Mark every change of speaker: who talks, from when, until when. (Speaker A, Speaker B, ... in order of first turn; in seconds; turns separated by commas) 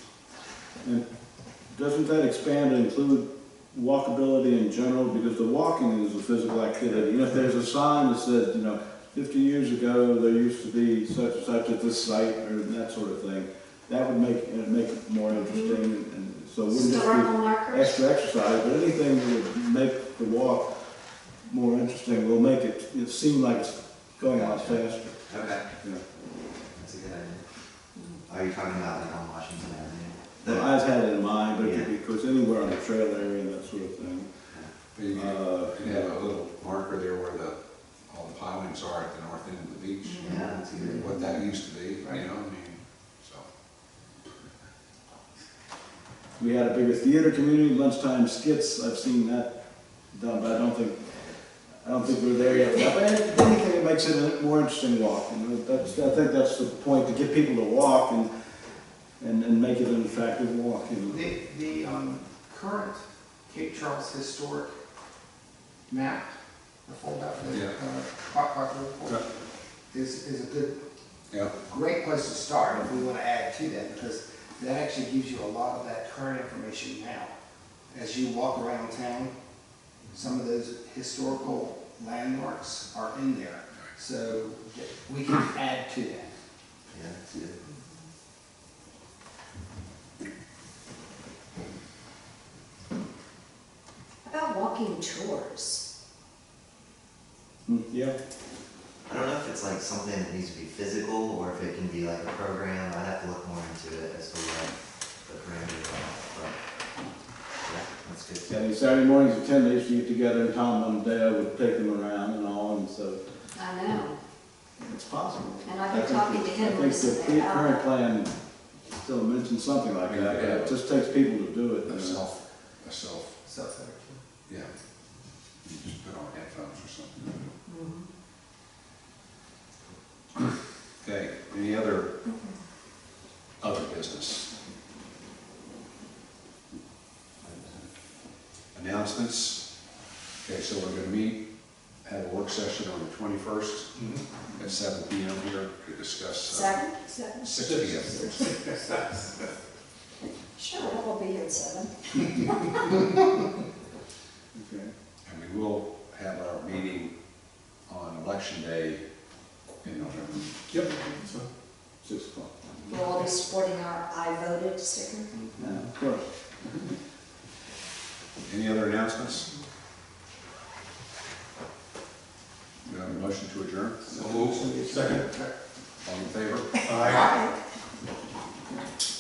Speaker A: 1.7-20.7, Speaker B: 15.3-15.8, Speaker B: 16.7-18.0, Speaker A: 21.4-25.2, Speaker C: 24.3-25.7, Speaker C: 26.7-27.4, Speaker C: 28.3-30.7, Speaker A: 30.4-34.3, Speaker C: 31.6-31.9, Speaker D: 34.9-37.6, Speaker A: 35.1-36.1, Speaker D: 38.1-40.2, Speaker B: 40.0-40.4, Speaker C: 40.2-41.1, Speaker D: 40.8-43.5, Speaker A: 46.4-49.5, Speaker A: 50.1-51.0, Speaker A: 51.8-58.3, Speaker A: 59.2-61.2, Speaker E: 61.0-64.7, Speaker E: 65.9-66.3, Speaker E: 66.8-69.2, Speaker D: 67.5-67.8, Speaker E: 69.9-70.8, Speaker E: 71.6-77.3, Speaker E: 77.9-79.3, Speaker E: 80.1-86.3, Speaker C: 86.9-87.6, Speaker B: 94.2-95.8, Speaker A: 97.7-98.2, Speaker C: 99.1-106.6, Speaker C: 107.6-108.6, Speaker A: 108.5-113.2, Speaker B: 113.5-114.2, Speaker A: 114.8-118.3, Speaker B: 115.6-117.9, Speaker A: 118.9-122.2, Speaker D: 120.0-120.8, Speaker D: 121.8-123.3, Speaker E: 123.4-124.2, Speaker D: 125.6-127.5, Speaker B: 127.7-128.1, Speaker D: 131.0-132.1, Speaker D: 133.6-134.5, Speaker D: 138.7-139.6, Speaker D: 140.4-141.4, Speaker D: 142.0-144.0, Speaker D: 144.5-146.8, Speaker B: 146.4-147.5, Speaker D: 147.4-148.5, Speaker F: 147.5-148.7, Speaker E: 148.8-149.2, Speaker B: 150.5-153.0, Speaker A: 154.5-154.9, Speaker D: 155.2-157.1, Speaker D: 157.9-159.0, Speaker D: 159.8-160.8, Speaker F: 160.7-161.5, Speaker A: 162.0-162.6, Speaker B: 162.9-165.4, Speaker A: 165.6-166.3, Speaker D: 168.4-169.5, Speaker D: 172.8-174.6, Speaker E: 174.0-175.5, Speaker F: 174.8-175.2, Speaker D: 176.0-177.2, Speaker F: 176.8-177.3, Speaker B: 177.2-177.5